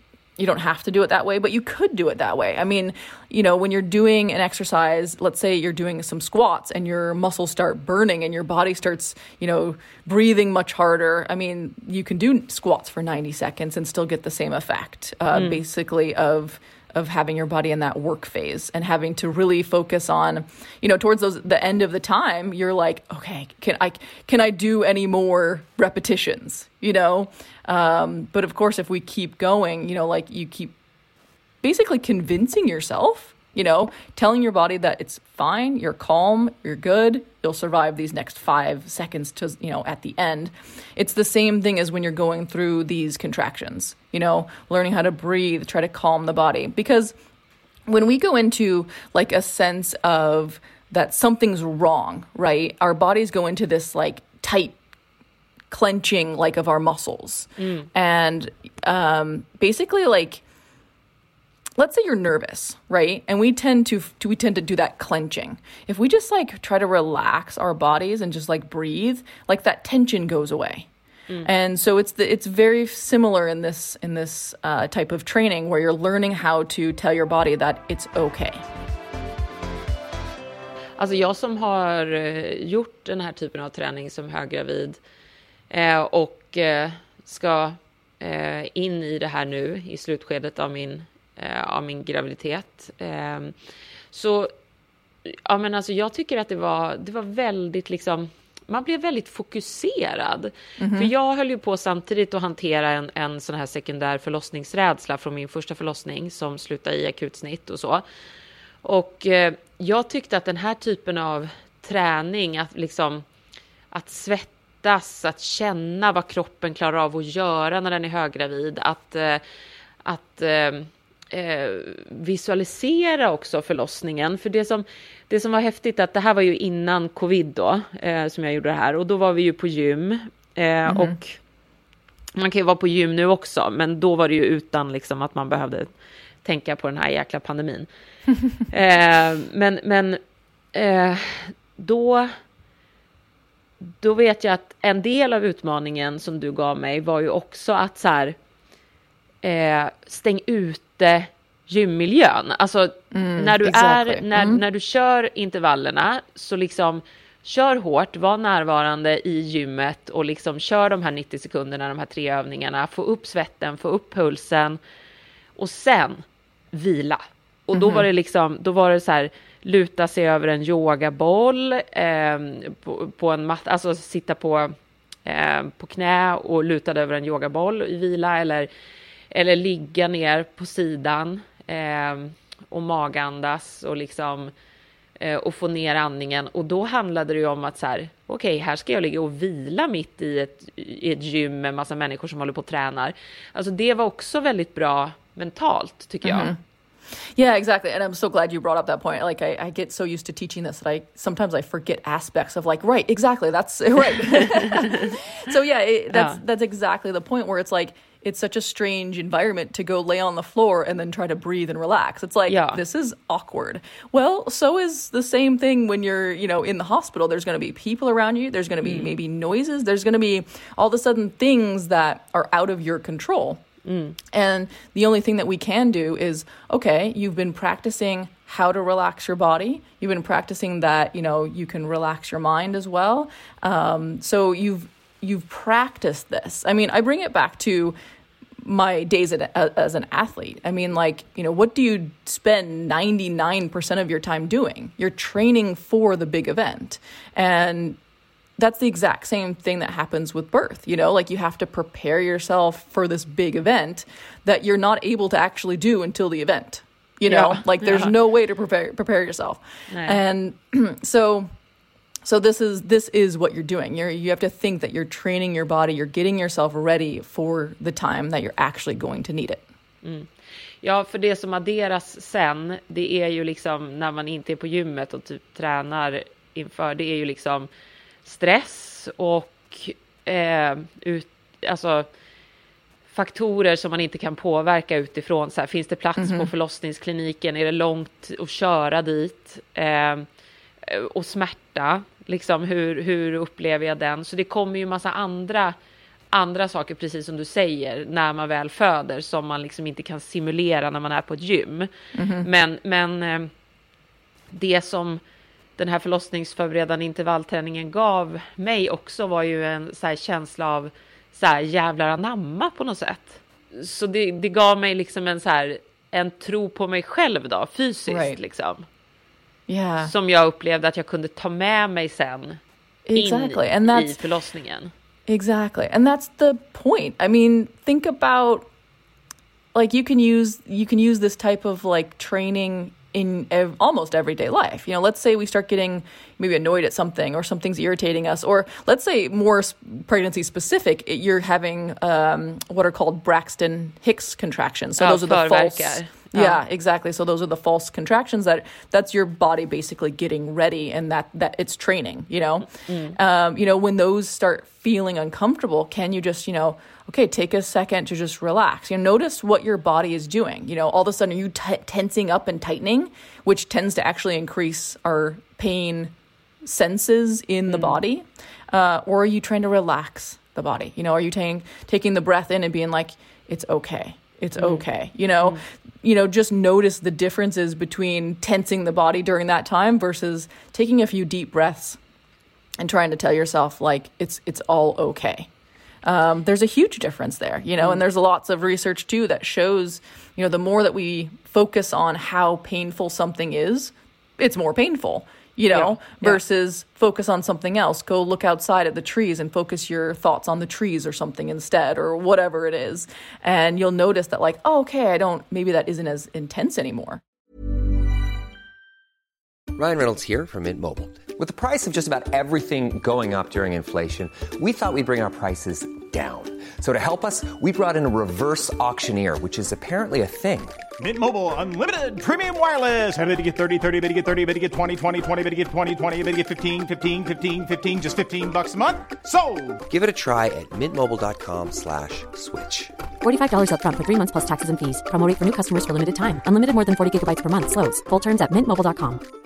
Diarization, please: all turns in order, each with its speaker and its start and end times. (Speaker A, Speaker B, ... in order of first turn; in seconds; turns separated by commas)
Speaker A: 0.4-30.7, Speaker B: 15.3-15.6, Speaker A: 31.6-47.1, Speaker A: 47.9-54.8, Speaker A: 55.7-60.4, Speaker B: 57.6-57.9, Speaker A: 61.8-70.9, Speaker A: 71.4-78.6, Speaker B: 81.0-85.0, Speaker B: 85.7-93.5, Speaker B: 94.1-94.5, Speaker B: 95.3-108.0, Speaker A: 100.8-101.1, Speaker B: 108.8-113.2, Speaker B: 113.9-119.4, Speaker B: 120.0-131.4, Speaker A: 130.9-131.2, Speaker B: 132.3-135.9, Speaker B: 136.4-137.9, Speaker B: 138.7-140.2, Speaker B: 140.7-142.3, Speaker B: 144.0-148.3, Speaker B: 149.4-164.8, Speaker A: 153.1-154.6, Speaker B: 165.6-174.7, Speaker A: 167.7-168.1, Speaker B: 175.2-178.7, Speaker B: 179.3-184.5, Speaker B: 185.2-196.5, Speaker A: 196.2-196.6, Speaker A: 197.3-223.6, Speaker B: 204.5-205.1, Speaker B: 206.1-206.4, Speaker B: 212.5-212.8, Speaker B: 218.8-219.1, Speaker B: 223.8-224.2, Speaker A: 224.3-238.0, Speaker A: 238.6-248.0, Speaker A: 248.6-261.5, Speaker B: 257.3-258.1, Speaker B: 259.9-260.2, Speaker A: 262.2-269.6, Speaker B: 270.0-270.3, Speaker B: 270.8-277.7, Speaker B: 278.2-282.1, Speaker B: 283.1-290.2, Speaker A: 286.2-286.5, Speaker B: 290.8-295.7, Speaker B: 296.3-301.9, Speaker A: 302.1-302.5, Speaker B: 302.4-303.5, Speaker B: 304.5-305.2, Speaker B: 305.8-318.8, Speaker A: 318.1-318.4, Speaker A: 319.7-320.1, Speaker B: 320.0-322.6, Speaker A: 323.1-324.2, Speaker B: 323.1-324.9, Speaker A: 325.3-328.7, Speaker A: 329.7-382.0, Speaker B: 345.0-346.6, Speaker B: 352.8-353.2, Speaker B: 367.7-368.0, Speaker B: 374.6-374.8, Speaker A: 382.8-385.5, Speaker A: 386.0-407.2, Speaker B: 395.7-396.4, Speaker C: 409.7-420.8, Speaker D: 421.0-429.8, Speaker C: 429.9-432.9, Speaker E: 433.2-439.2